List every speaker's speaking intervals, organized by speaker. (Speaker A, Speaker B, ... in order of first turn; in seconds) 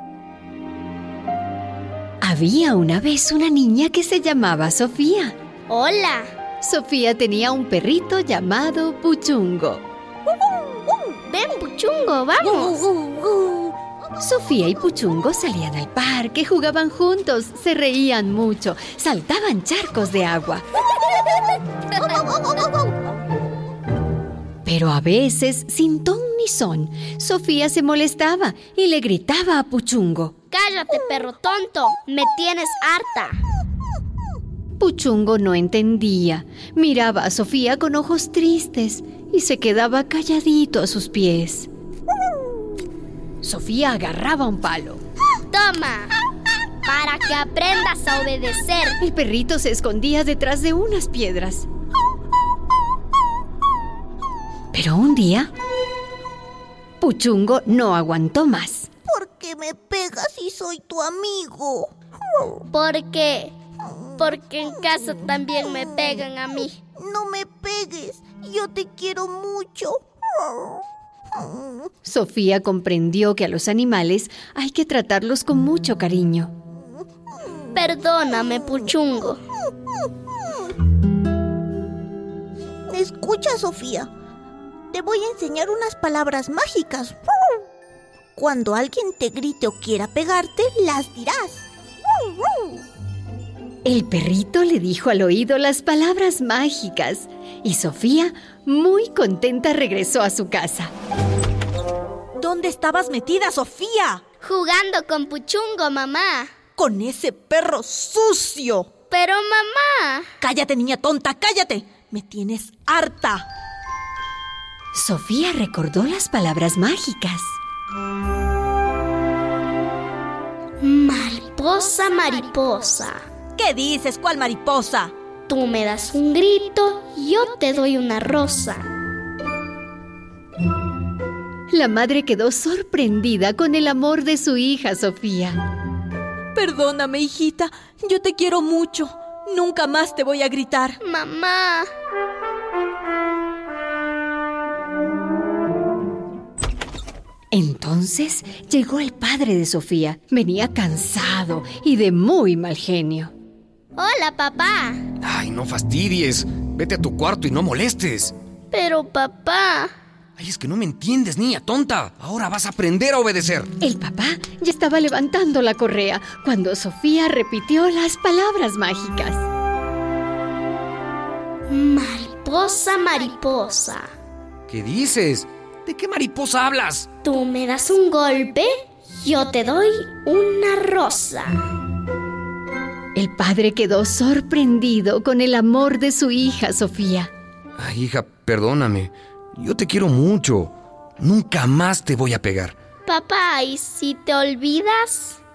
Speaker A: 2.2-5.3, 6.6-9.8, 14.2-20.6, 24.6-30.3, 34.8-41.7, 43.4-45.0, 49.0-51.7, 54.7-55.5, 57.0-58.9, 72.0-76.5, 93.8-100.9, 114.9-117.6, 131.7-135.6, 147.5-153.3, 163.8-169.5, 183.2-187.3
Speaker B: 5.7-6.3, 11.3-13.1, 30.5-33.4, 45.5-46.1, 46.8-49.0, 62.7-63.5, 64.2-66.8, 77.7-79.4, 104.4-106.5, 109.1-110.3, 120.8-123.2, 125.5-128.8, 141.0-141.9, 154.0-155.0, 158.7-159.9, 171.7-174.1, 177.2-181.6, 193.1-195.4
Speaker C: 13.0-13.7, 102.4-104.2, 106.8-108.9, 110.4-113.5, 123.6-125.1, 136.6-141.0
Speaker D: 59.1-61.9, 67.0-70.0, 82.9-84.1, 84.9-87.2, 88.4-91.7
Speaker E: 155.2-158.3, 160.4-163.7, 174.7-177.1, 187.8-192.8